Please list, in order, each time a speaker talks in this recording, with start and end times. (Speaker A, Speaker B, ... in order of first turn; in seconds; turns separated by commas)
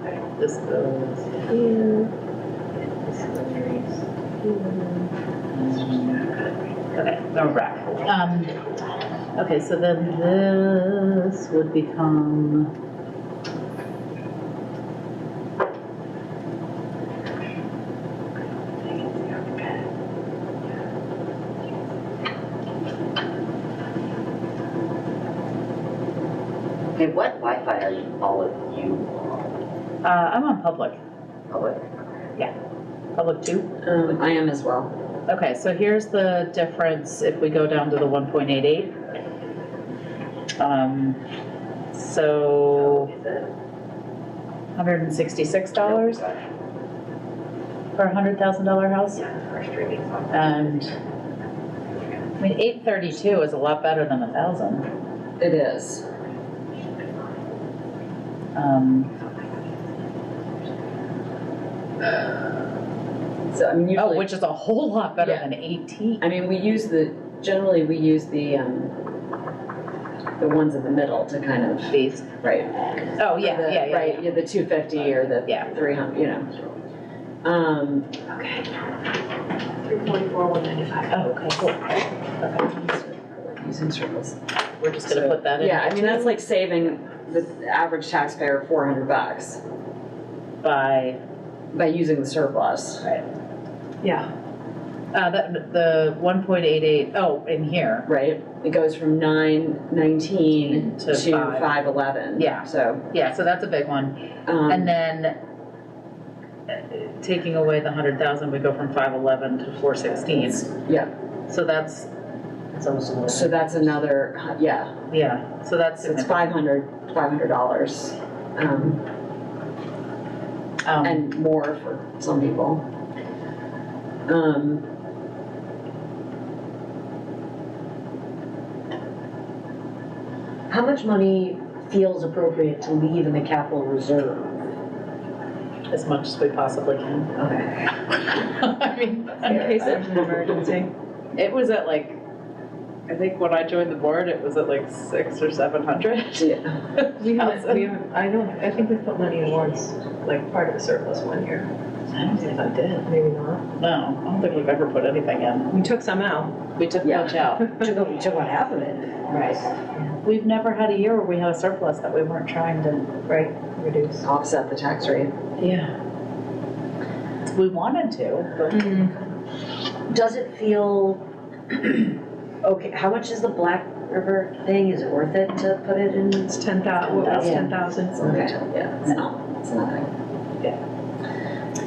Speaker A: 0.4-1.5, Speaker A: 3.1-3.9, Speaker A: 5.5-6.3, Speaker A: 6.9-8.6, Speaker A: 9.3-12.7, Speaker B: 27.0-29.5, Speaker A: 30.0-31.0, Speaker B: 31.5-31.8, Speaker A: 33.1-33.7, Speaker C: 33.8-34.9, Speaker A: 35.3-39.0, Speaker A: 40.6-41.2, Speaker A: 41.9-43.1, Speaker B: 42.9-43.5, Speaker A: 44.8-46.3, Speaker A: 48.0-49.3, Speaker B: 49.3-51.0, Speaker A: 50.3-51.0, Speaker A: 52.4-54.9, Speaker C: 55.4-56.1, Speaker A: 58.5-59.1, Speaker C: 63.5-64.4, Speaker A: 64.0-66.2, Speaker C: 65.2-65.5, Speaker C: 66.2-69.0, Speaker C: 70.4-76.5, Speaker A: 71.9-72.3, Speaker A: 73.2-74.5, Speaker A: 75.4-75.8, Speaker C: 77.4-78.3, Speaker D: 79.8-81.3, Speaker A: 81.1-81.8, Speaker A: 82.4-82.7, Speaker C: 82.5-84.4, Speaker A: 84.8-86.4, Speaker C: 85.0-89.6, Speaker A: 90.6-91.2, Speaker C: 91.7-93.0, Speaker D: 94.0-94.3, Speaker A: 95.1-98.1, Speaker C: 98.1-103.0, Speaker A: 100.4-105.3, Speaker C: 104.5-104.9, Speaker A: 106.7-110.8, Speaker C: 110.7-111.1, Speaker A: 111.5-112.1, Speaker A: 112.7-114.0, Speaker E: 112.9-113.4, Speaker C: 113.3-115.0, Speaker A: 115.1-116.5, Speaker C: 116.0-119.0, Speaker A: 120.8-121.2, Speaker C: 121.0-122.8, Speaker C: 124.3-124.8, Speaker E: 130.7-134.6, Speaker A: 135.9-137.3, Speaker C: 137.4-137.9, Speaker A: 138.3-139.7, Speaker D: 139.4-140.9, Speaker C: 139.5-140.2, Speaker A: 141.3-142.2, Speaker A: 143.1-147.9, Speaker C: 146.4-146.7, Speaker D: 147.2-151.7, Speaker A: 152.1-153.1, Speaker D: 152.4-153.6, Speaker A: 153.8-155.7, Speaker D: 155.7-156.6, Speaker A: 156.8-157.7, Speaker C: 157.0-157.4, Speaker E: 157.8-159.7, Speaker A: 159.3-159.6, Speaker A: 160.2-163.1, Speaker D: 163.3-164.2, Speaker C: 164.2-165.4, Speaker A: 165.6-165.9, Speaker A: 167.5-169.1, Speaker D: 168.7-169.2, Speaker E: 170.1-171.2, Speaker E: 172.6-176.5, Speaker D: 176.5-178.5, Speaker A: 177.0-177.8, Speaker E: 177.4-177.7, Speaker C: 178.1-180.1